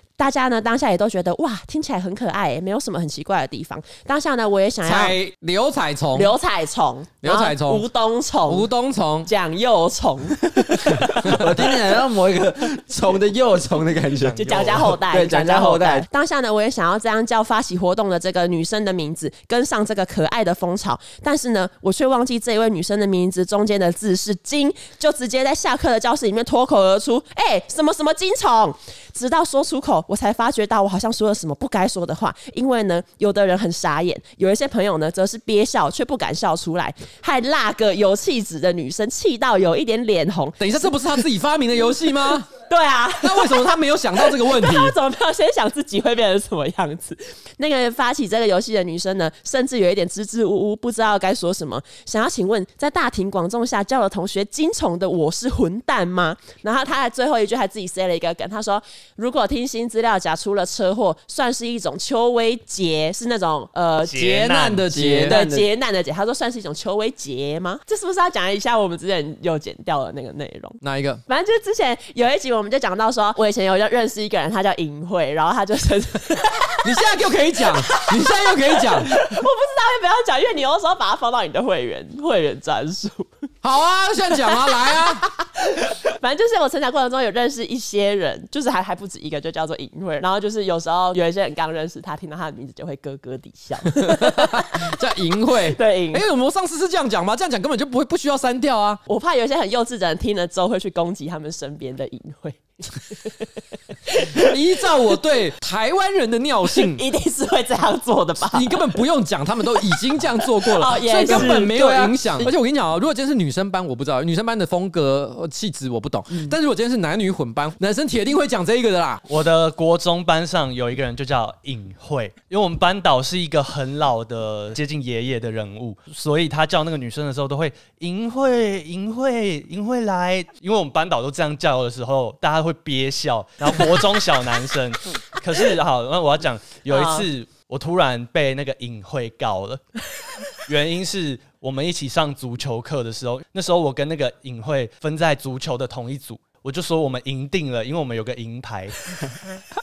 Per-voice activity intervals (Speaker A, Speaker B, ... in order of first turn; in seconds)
Speaker A: 0.2-5.1, 6.1-8.7, 9.2-11.5, 14.4-40.6, 42.7-64.3, 65.2-77.1, 77.6-83.3, 84.5-94.9, 95.5-96.2, 99.1-103.4, 104.1-104.5, 106.9-108.8, 110.6-111.7, 136.9-137.3
Speaker B: 4.8-6.3, 7.2-7.8, 8.4-9.3, 40.6-42.5, 43.2-44.9, 64.1-65.4, 70.8-71.2, 76.8-79.1, 83.6-85.2, 94.0-99.0, 104.3-107.0, 108.4-119.2
Speaker C: 11.1-16.1, 64.9-65.7, 111.3-112.5
Speaker D: 14.1-14.9, 64.0-64.9, 119.3-140.0, 140.5-149.1